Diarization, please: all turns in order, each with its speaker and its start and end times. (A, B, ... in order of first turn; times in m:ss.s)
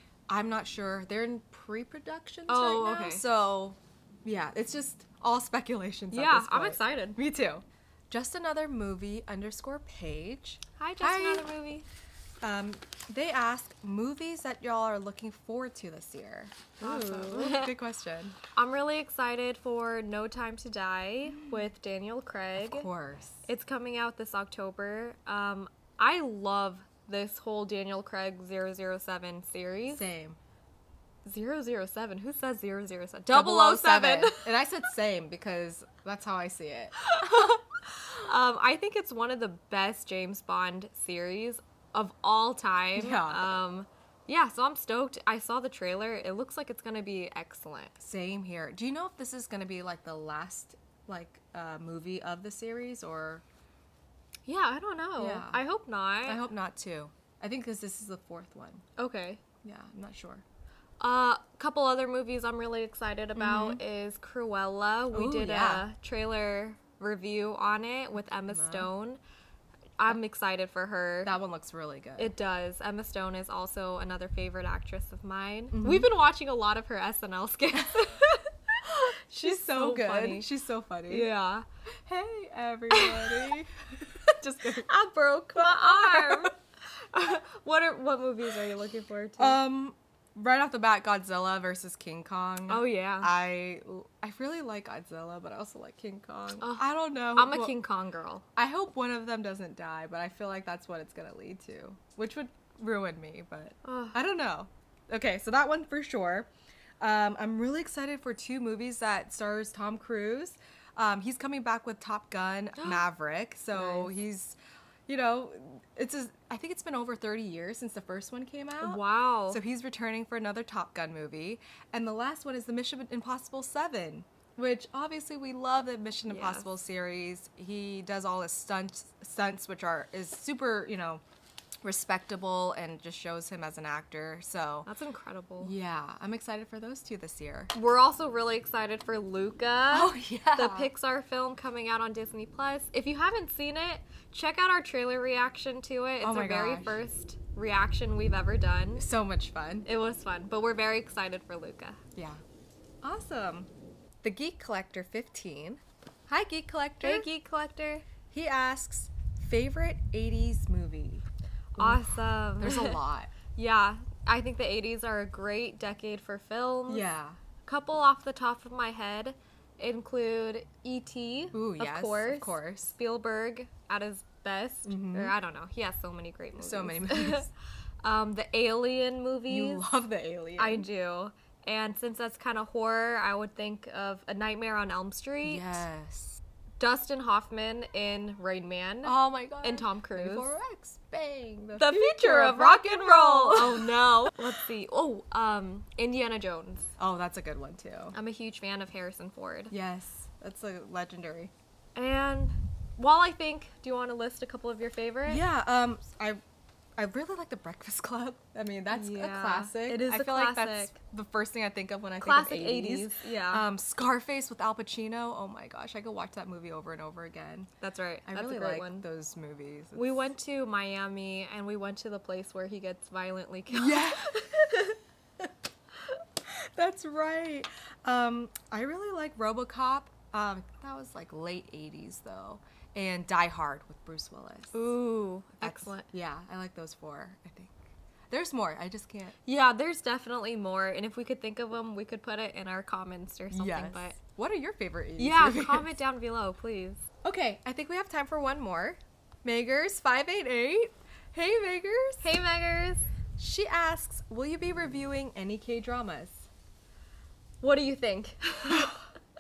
0:00.3-0:11.5 A
0:02.5-0:03.2 B
0:06.1-0:07.2 B
0:10.8-0:11.8 B
0:12.4-0:18.4 A
0:16.8-0:17.8 B
0:18.5-0:22.9 B
0:21.3-0:21.7 A
0:22.6-0:23.5 A
0:23.5-0:30.0 B
0:29.9-0:30.4 A
0:31.2-0:34.5 B
0:33.3-0:37.5 A
0:37.0-0:48.0 B
0:43.0-0:43.6 A
0:48.0-0:53.4 A
0:54.5-0:56.4 B
0:55.2-0:55.6 A
0:56.2-0:58.8 A
0:59.0-0:59.4 B
0:59.6-1:00.4 A
1:01.0-1:09.2 B
1:03.4-1:03.8 A
1:05.1-1:05.9 A
1:08.5-1:08.9 A
1:10.0-1:11.3 B
1:11.2-1:12.3 A
1:12.2-1:20.5 B
1:15.7-1:16.1 A
1:19.3-1:21.3 A
1:21.1-1:21.6 B
1:22.0-1:24.9 A
1:22.9-1:23.5 B
1:24.8-1:29.6 B
1:25.6-1:26.5 A
1:29.4-1:37.8 A
1:32.7-1:33.3 B
1:36.6-1:38.4 B
1:38.6-2:11.2 A
1:43.8-1:44.2 B
1:52.8-1:53.1 B
1:53.7-1:54.1 B
1:58.8-1:59.6 B
2:06.3-2:06.7 B
2:11.8-2:14.9 A
2:14.9-2:15.7 B
2:15.6-2:17.7 A
2:17.7-2:29.1 B
2:19.9-2:20.9 A
2:26.2-2:27.0 A
2:29.0-2:29.9 A
2:29.8-2:32.0 B
2:32.2-2:32.4 A
2:33.0-2:33.7 A
2:34.2-2:37.3 A
2:37.0-2:38.0 B
2:38.3-2:41.2 A
2:41.8-2:43.0 B
2:41.8-2:43.3 A
2:43.5-2:47.0 B
2:46.9-2:47.4 A
2:47.6-2:57.5 B
2:51.5-2:53.0 A
2:54.8-2:55.3 A
2:56.6-2:57.5 A
2:58.0-2:59.8 B
2:59.5-3:00.9 A
3:00.6-3:05.8 B
3:05.4-3:06.4 A
3:06.8-3:10.5 B
3:09.0-3:14.0 A
3:11.8-3:16.9 B
3:17.0-3:18.2 A
3:18.1-3:19.7 B
3:19.7-3:21.5 A
3:22.0-3:25.4 B
3:25.3-3:26.4 A
3:27.0-3:37.7 A
3:28.9-3:30.9 B
3:32.2-3:33.7 B
3:37.8-3:39.1 B
3:38.3-3:40.3 A
3:40.0-3:45.0 B
3:43.7-3:44.4 A
3:46.4-3:54.8 A
3:54.7-3:56.1 B
3:55.6-3:59.4 A
3:59.4-4:04.2 B
4:03.5-4:05.9 A
4:05.2-4:07.0 B
4:07.2-4:12.3 A
4:12.2-4:13.1 B
4:13.4-4:16.5 A
4:17.6-4:19.0 B
4:18.7-4:19.0 A